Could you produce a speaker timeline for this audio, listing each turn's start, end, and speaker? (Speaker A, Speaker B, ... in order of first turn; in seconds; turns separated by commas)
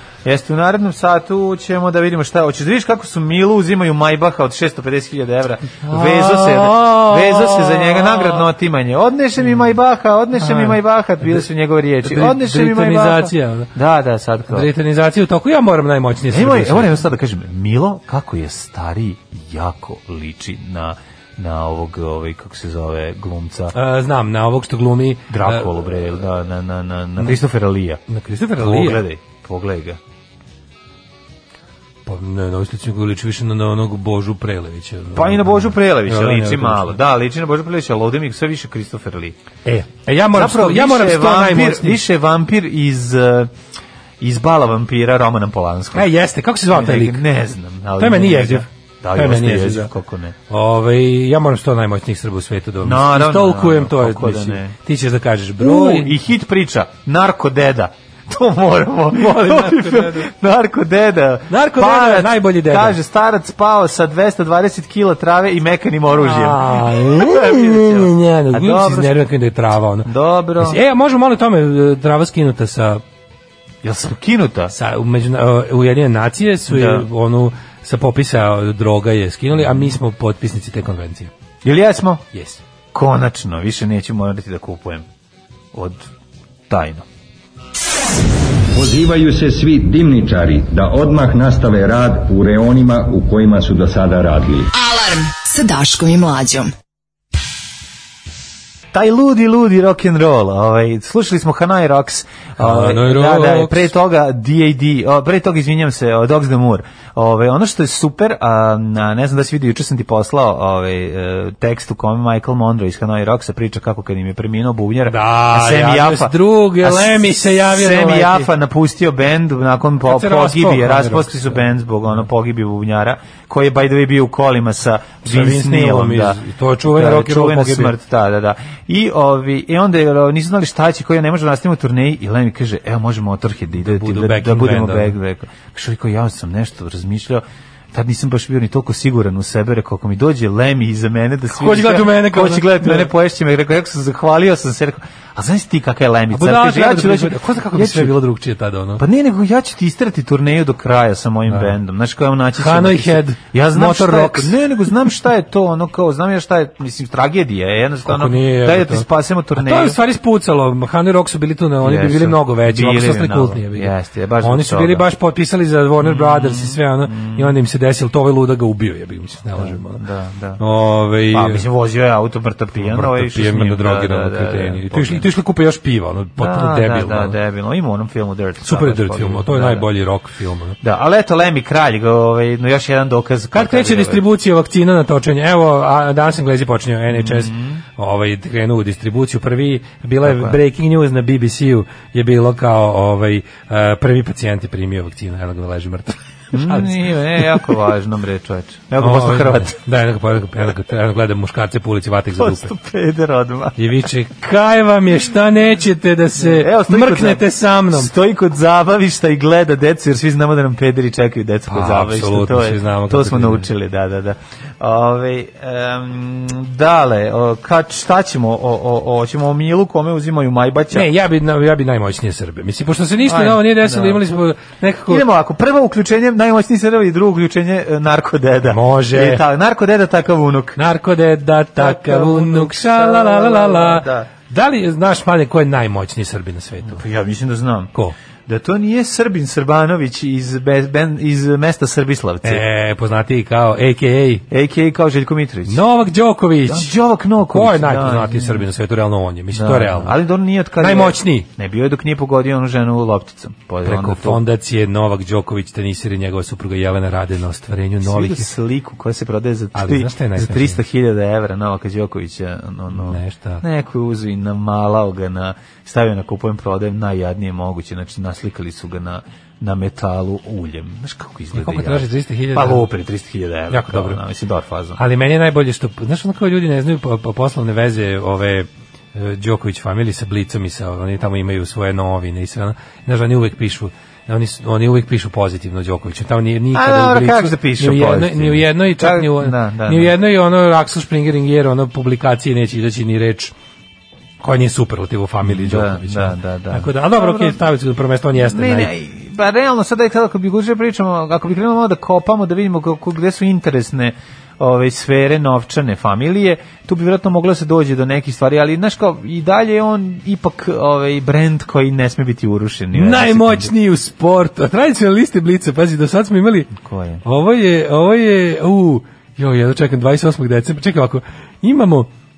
Speaker A: 0.2-14.7, Speaker B: 5.8-8.5, Speaker B: 10.3-11.5, Speaker B: 12.0-13.7, Speaker B: 14.5-17.0, Speaker A: 16.3-23.8, Speaker B: 23.7-26.2, Speaker A: 25.3-28.0, Speaker B: 28.1-29.0, Speaker A: 28.6-30.0, Speaker B: 32.0-37.0, Speaker A: 35.1-39.4, Speaker B: 39.6-42.0, Speaker A: 40.3-43.5, Speaker A: 44.2-46.1, Speaker B: 45.9-47.2, Speaker A: 46.7-50.3, Speaker B: 48.0-49.9, Speaker B: 50.5-56.2, Speaker A: 52.8-54.7, Speaker A: 55.6-69.2, Speaker B: 59.1-60.3, Speaker B: 61.5-63.0, Speaker B: 66.1-73.0, Speaker A: 70.0-70.8, Speaker A: 73.8-74.7, Speaker B: 74.7-81.3, Speaker A: 76.7-77.1, Speaker A: 81.6-82.2, Speaker B: 82.3-82.6, Speaker A: 82.9-85.0, Speaker A: 85.7-86.1, Speaker A: 86.7-87.0, Speaker C: 88.7-94.7, Speaker D: 94.7-96.7, Speaker A: 98.9-148.2, Speaker B: 102.6-103.9, Speaker B: 115.0-118.5, Speaker B: 120.0-122.2, Speaker B: 125.2-127.9, Speaker B: 133.7-135.2, Speaker B: 141.5-143.1, Speaker B: 146.3-149.0, Speaker A: 149.0-160.0, Speaker B: 151.5-151.7, Speaker B: 152.6-154.9, Speaker B: 158.0-170.0, Speaker A: 161.8-165.1, Speaker A: 166.0-167.5, Speaker A: 169.6-170.6, Speaker B: 170.6-171.6, Speaker A: 171.3-175.3, Speaker B: 172.8-177.3, Speaker A: 176.4-179.9, Speaker B: 178.6-180.8, Speaker A: 180.8-184.2, Speaker B: 183.5-197.8, Speaker A: 187.1-187.8, Speaker A: 190.2-190.6, Speaker A: 196.5-199.8, Speaker B: 199.0-202.7, Speaker A: 202.3-203.8, Speaker B: 203.8-208.1, Speaker A: 206.4-221.1, Speaker B: 211.7-213.7, Speaker B: 220.9-225.2, Speaker A: 223.2-224.2, Speaker A: 225.1-230.8, Speaker B: 228.6-229.4, Speaker B: 230.8-237.0, Speaker A: 231.8-234.3, Speaker A: 236.8-237.9, Speaker A: 238.5-242.6, Speaker B: 242.4-244.4, Speaker A: 244.5-245.8, Speaker B: 245.7-250.2, Speaker A: 246.6-248.6, Speaker A: 249.5-254.4, Speaker B: 250.8-251.5, Speaker B: 253.8-258.5, Speaker A: 258.0-275.0, Speaker B: 259.7-260.8, Speaker B: 262.9-263.6, Speaker B: 271.5-272.9, Speaker B: 273.7-274.2, Speaker B: 275.0-293.5, Speaker A: 286.7-290.1, Speaker B: 294.4-298.9, Speaker A: 295.4-297.6, Speaker A: 298.4-313.7, Speaker B: 312.9-316.7, Speaker A: 316.8-317.2, Speaker B: 317.2-322.1